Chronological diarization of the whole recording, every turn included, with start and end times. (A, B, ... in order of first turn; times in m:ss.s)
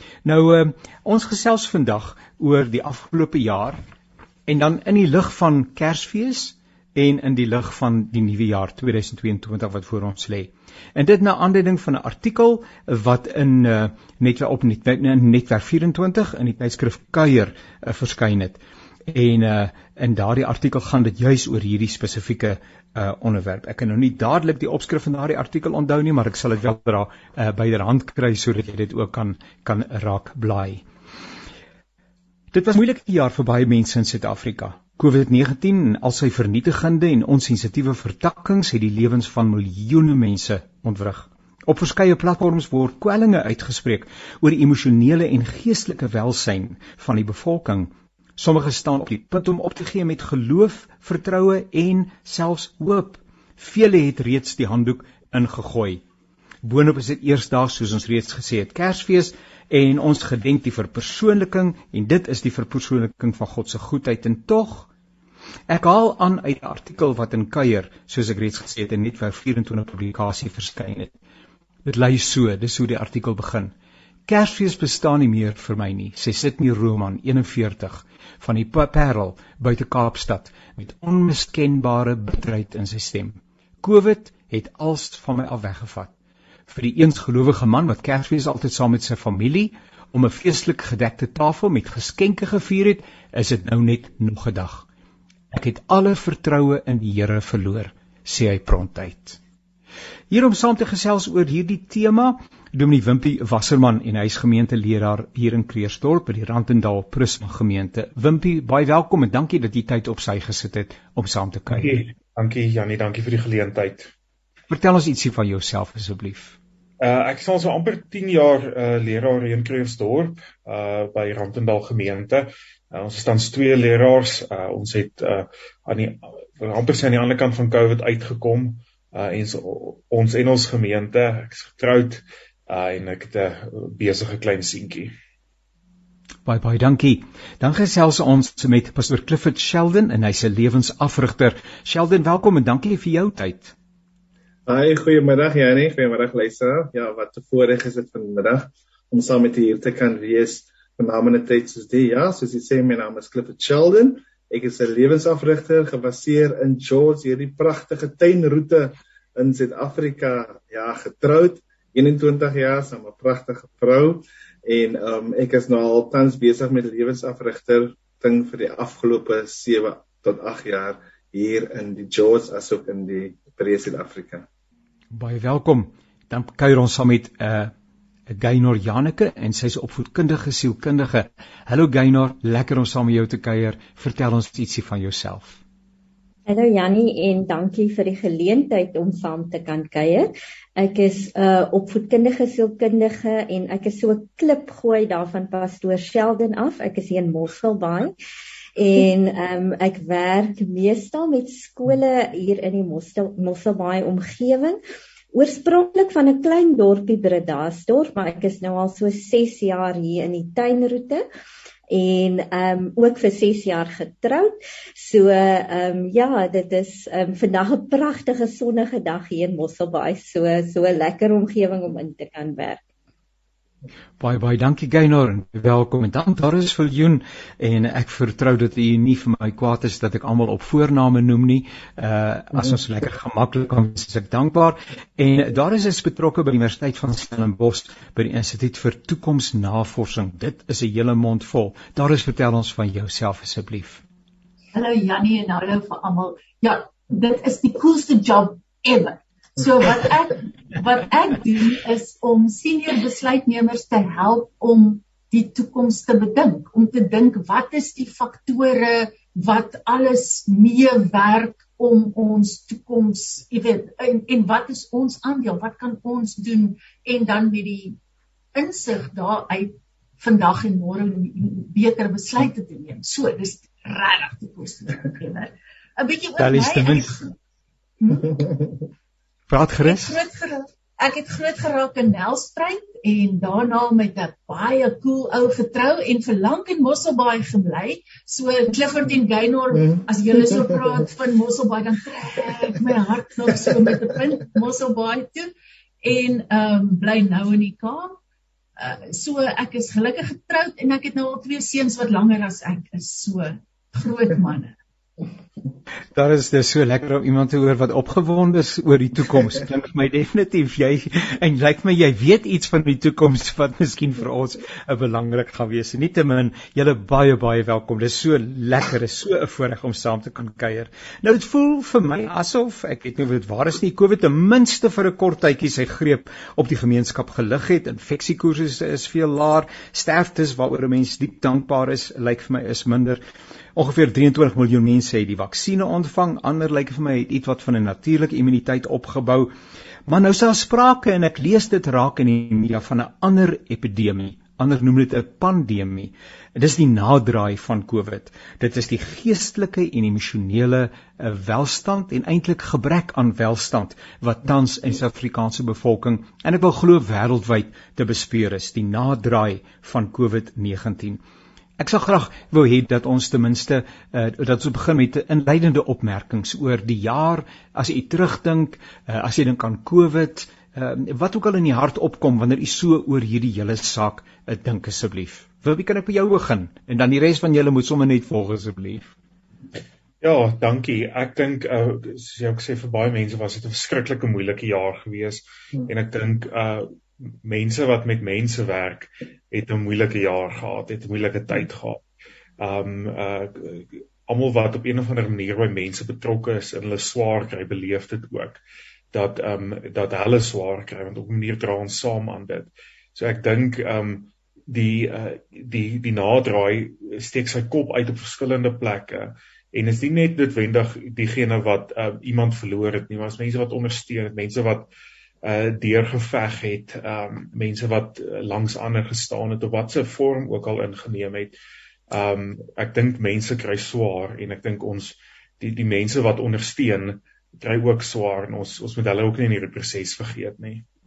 0:00.2-0:03.8 A
0:04.5-0:30.8 A
0:32.5-0:56.0 A
0:56.6-1:04.9 A
1:05.7-1:11.1 A
1:11.8-1:13.7 A
1:14.3-1:26.1 A
1:26.7-1:34.9 A
1:35.5-1:39.4 A
1:40.3-1:52.0 A
1:51.7-1:54.1 B
1:54.7-1:56.6 A
1:57.0-2:15.1 B
2:16.4-2:23.7 A
2:24.7-2:54.5 C
2:55.1-2:57.7 A
2:58.3-3:05.6 A
3:06.5-3:18.1 D
3:18.8-3:24.8 D
3:25.3-3:31.2 D
3:31.9-3:42.8 D
3:44.2-4:04.0 A
4:04.7-4:28.0 E
4:28.5-4:37.4 E
4:36.4-4:37.1 A
4:38.0-4:38.8 E
4:39.5-4:40.2 A
4:39.8-4:55.5 E
4:56.0-4:58.1 E
4:58.8-5:04.7 E
5:06.2-5:33.2 A
5:33.8-5:39.5 A
5:40.1-6:01.2 A
6:01.8-6:19.1 A
6:20.2-6:26.9 B
6:27.4-6:32.0 B
6:32.6-6:38.6 B
6:39.1-6:54.9 B
6:55.4-7:01.6 B
7:02.1-7:10.8 B